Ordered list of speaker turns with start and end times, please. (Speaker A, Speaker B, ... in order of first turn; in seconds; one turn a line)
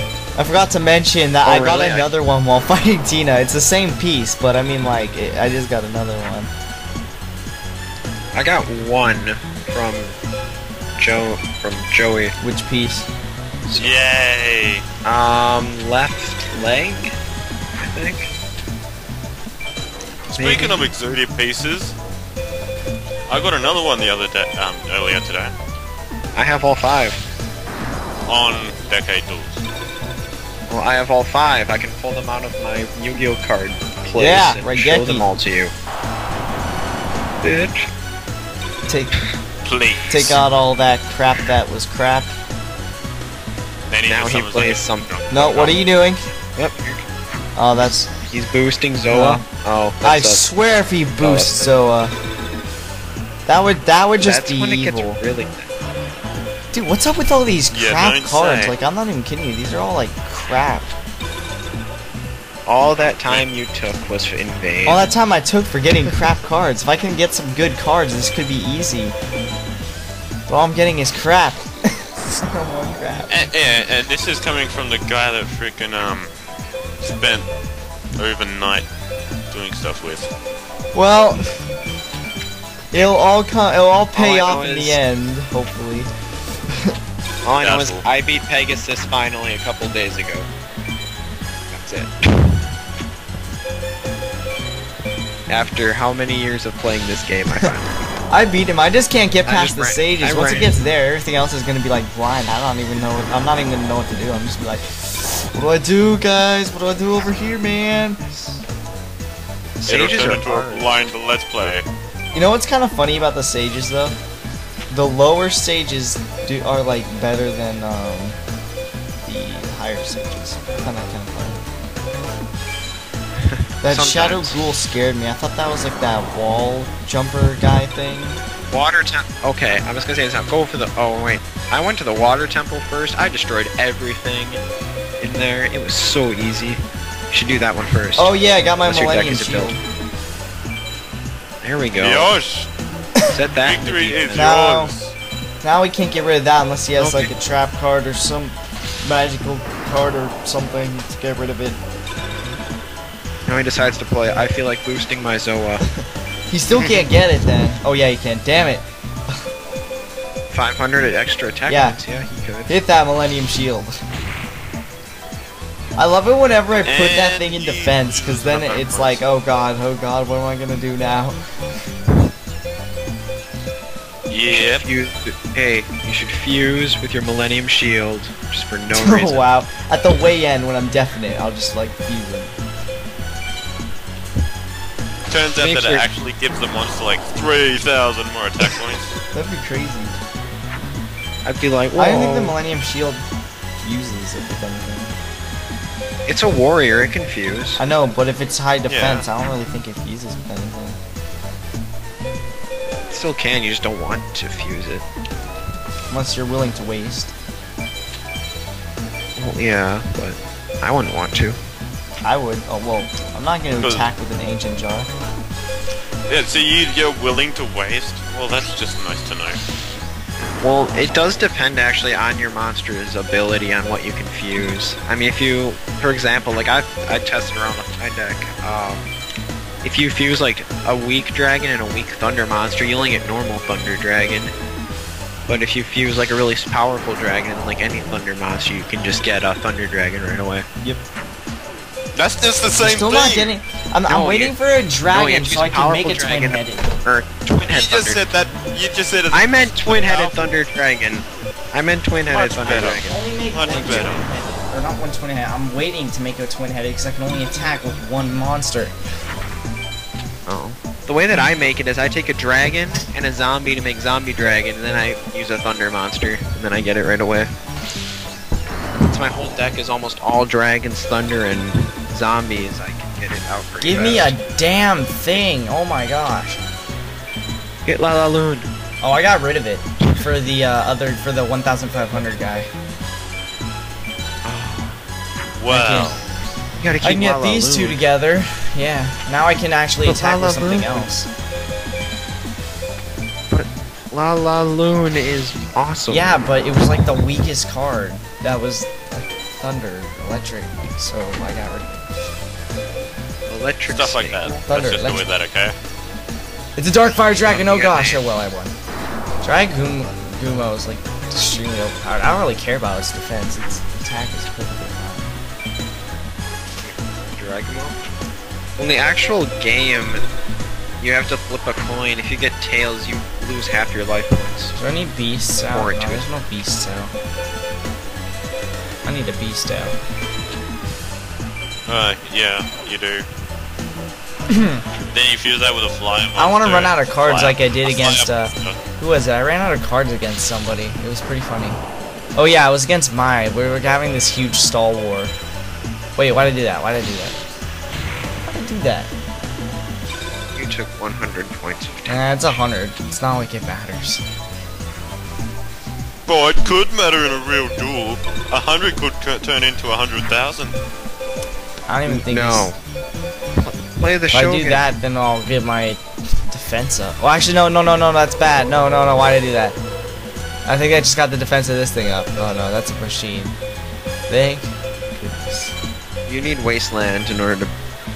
Speaker A: 0.4-6.5
Speaker B: 1.4-2.1
Speaker B: 8.3-10.1
Speaker B: 11.0-12.3
Speaker A: 12.4-13.1
Speaker B: 13.7-13.9
Speaker C: 13.8-14.8
Speaker B: 15.0-17.1
Speaker B: 17.8-18.3
Speaker C: 20.3-21.9
Speaker B: 20.4-20.9
Speaker C: 23.3-25.5
Speaker B: 26.3-27.2
Speaker C: 28.3-29.6
Speaker B: 30.7-35.7
Speaker A: 34.1-35.3
Speaker B: 37.4-37.9
Speaker A: 38.9-39.1
Speaker C: 39.6-40.4
Speaker A: 40.1-42.3
Speaker C: 43.9-45.8
Speaker B: 44.0-45.6
Speaker A: 45.3-46.3
Speaker B: 46.5-47.0
Speaker A: 47.5-48.1
Speaker B: 48.3-50.5
Speaker A: 49.1-49.4
Speaker A: 50.0-52.1
Speaker B: 51.2-51.7
Speaker A: 53.5-55.2
Speaker B: 54.2-55.7
Speaker A: 56.7-60.9
Speaker C: 57.7-58.8
Speaker B: 62.6-65.1
Speaker A: 64.8-69.2
Speaker A: 70.5-71.9
Speaker A: 72.4-73.4
Speaker C: 73.3-76.3
Speaker C: 77.0-77.5
Speaker C: 78.2-78.9
Speaker C: 79.5-80.3
Speaker A: 80.9-81.4
Speaker A: 82.9-86.1
Speaker B: 84.1-85.0
Speaker B: 87.4-90.5
Speaker C: 87.6-88.0
Speaker B: 91.7-92.7
Speaker B: 95.5-97.9
Speaker A: 98.3-108.2
Speaker B: 99.4-100.7
Speaker B: 108.3-108.6
Speaker B: 109.8-111.0
Speaker C: 109.9-111.8
Speaker A: 112.3-114.2
Speaker A: 114.9-118.4
Speaker A: 119.2-121.7
Speaker B: 123.4-124.6
Speaker A: 123.8-128.4
Speaker B: 128.7-134.6
Speaker B: 135.2-139.8
Speaker A: 138.2-139.8
Speaker B: 141.6-142.3
Speaker C: 142.0-142.7
Speaker B: 143.3-144.5
Speaker C: 143.6-145.1
Speaker A: 144.3-144.9
Speaker A: 145.6-151.8
Speaker B: 147.0-147.3
Speaker B: 153.4-155.8
Speaker A: 155.8-159.5
Speaker C: 156.7-157.0
Speaker B: 160.5-162.7
Speaker A: 161.7-162.0
Speaker A: 162.7-163.9
Speaker A: 165.9-171.4
Speaker C: 166.8-169.2
Speaker C: 174.3-174.8
Speaker B: 174.5-179.4
Speaker A: 178.9-182.6
Speaker C: 185.3-189.1
Speaker B: 185.6-186.1
Speaker A: 189.3-190.1
Speaker B: 191.4-192.6
Speaker A: 191.9-193.2
Speaker A: 193.8-195.2
Speaker B: 196.3-197.8
Speaker A: 197.8-201.0
Speaker C: 198.9-199.3
Speaker B: 203.1-205.0
Speaker A: 206.1-207.3
Speaker B: 209.3-211.6
Speaker A: 212.2-215.1
Speaker C: 213.8-214.1
Speaker C: 216.3-219.6
Speaker B: 220.6-229.1
Speaker B: 229.8-234.5
Speaker B: 235.5-240.7
Speaker C: 242.1-243.5
Speaker A: 242.8-246.9
Speaker B: 244.1-244.5
Speaker B: 245.1-248.3
Speaker C: 247.7-250.4
Speaker B: 249.3-253.2
Speaker C: 252.3-254.3
Speaker A: 252.6-258.9
Speaker B: 253.7-254.1
Speaker B: 260.5-267.5
Speaker B: 268.9-274.4
Speaker A: 273.8-276.6
Speaker B: 277.8-278.7
Speaker A: 279.0-282.7
Speaker B: 284.4-285.0
Speaker C: 285.6-286.2
Speaker A: 285.7-286.2
Speaker B: 286.8-288.1
Speaker A: 287.0-291.3
Speaker B: 290.1-291.1
Speaker B: 293.5-296.3
Speaker A: 296.1-302.1
Speaker B: 303.5-304.6
Speaker C: 303.9-305.8
Speaker A: 304.7-305.2
Speaker A: 306.8-308.7
Speaker B: 307.4-308.2
Speaker A: 309.4-315.4
Speaker B: 316.8-318.0
Speaker B: 318.8-320.2
Speaker B: 321.0-324.7
Speaker A: 324.7-327.1
Speaker B: 325.7-326.2
Speaker A: 329.0-330.0
Speaker C: 331.9-333.3
Speaker A: 334.5-334.8
Speaker C: 335.1-338.8
Speaker A: 336.4-341.8
Speaker A: 342.3-345.3
Speaker A: 346.2-347.4
Speaker A: 348.4-349.1
Speaker B: 350.5-352.3
Speaker A: 352.1-354.2
Speaker C: 356.3-360.7
Speaker A: 361.9-362.7
Speaker B: 362.1-362.8
Speaker B: 363.6-364.8
Speaker A: 364.3-369.8
Speaker A: 370.6-373.5
Speaker A: 374.3-375.7
Speaker B: 376.3-377.7